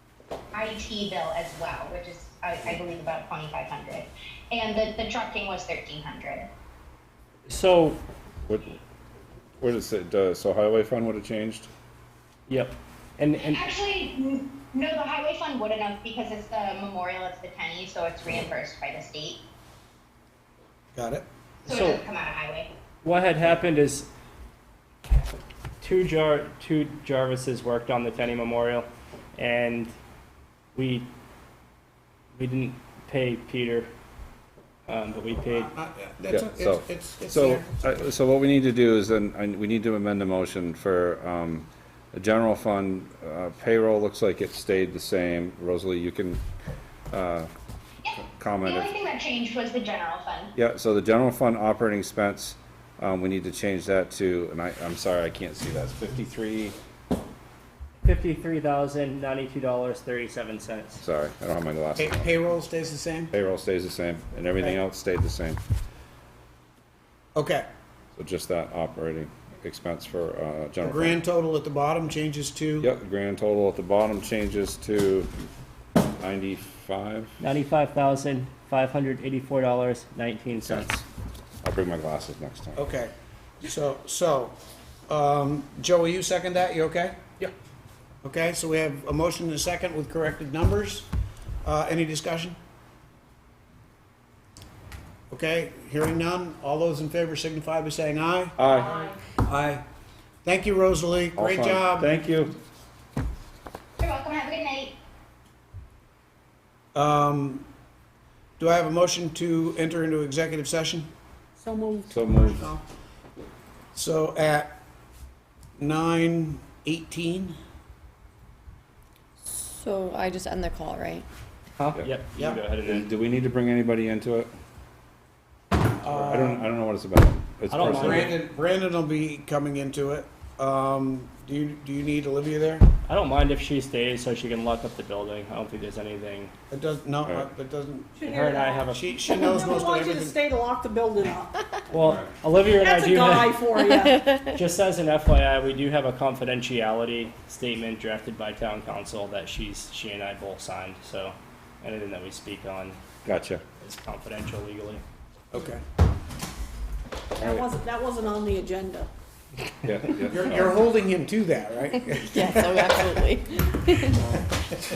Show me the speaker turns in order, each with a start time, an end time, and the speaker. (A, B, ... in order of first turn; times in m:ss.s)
0:00.5-0:06.5 A
0:07.5-0:08.0 B
0:08.5-0:08.8 C
0:09.6-0:11.7 C
0:12.5-0:13.6 B
0:13.4-0:19.4 A
0:21.0-0:21.3 D
0:21.6-0:22.7 A
0:21.7-0:22.0 B
0:23.0-0:24.1 B
0:25.8-0:29.9 B
0:30.8-0:31.1 B
0:32.4-0:33.9 B
0:34.9-0:35.7 B
0:35.4-0:37.8 D
0:36.3-0:46.4 C
0:47.1-0:47.5 C
0:48.0-0:50.5 A
0:48.2-0:48.9 C
0:50.6-0:56.8 C
0:58.0-1:01.0 B
1:01.0-1:02.3 C
1:02.0-1:03.3 D
1:03.3-1:05.6 C
1:07.4-1:07.7 D
1:08.2-1:11.2 C
1:10.8-1:12.9 D
1:12.8-1:15.3 C
1:16.2-1:17.4 C
1:17.4-1:21.0 B
1:21.6-1:22.8 C
1:22.8-1:24.6 D
1:25.1-1:27.2 D
1:28.2-1:31.1 D
1:31.6-1:32.6 D
1:35.3-1:38.6 D
1:38.6-1:39.1 C
1:38.8-1:39.2 E
1:39.4-1:39.8 D
1:40.4-1:42.1 D
1:41.4-1:42.6 C
1:44.0-1:45.0 A
1:47.0-1:47.7 D
1:48.6-1:51.1 D
1:51.6-1:52.2 E
1:52.1-1:52.7 C
1:52.3-1:52.8 D
1:53.9-1:54.8 D
1:55.8-1:57.6 D
1:59.4-2:01.2 F
2:01.8-2:03.1 B
2:02.8-2:04.5 C
2:06.0-2:08.4 C
2:06.0-2:06.7 D
2:07.7-2:08.4 B
2:07.8-2:12.8 D
2:13.1-2:16.5 B
2:16.7-2:18.2 D
2:18.2-2:21.5 E
2:18.2-2:19.2 B
2:18.9-2:20.4 D
2:21.9-2:23.7 B
2:22.8-2:24.2 E
2:24.1-2:24.5 F
2:24.4-2:33.0 B
2:33.2-2:33.6 C
2:33.8-2:35.0 B
2:35.5-2:35.8 D
2:37.4-2:37.6 C
2:37.4-2:39.1 E
2:39.8-2:40.8 C
2:40.3-2:43.2 D
2:42.1-2:44.2 F
2:44.2-2:44.6 D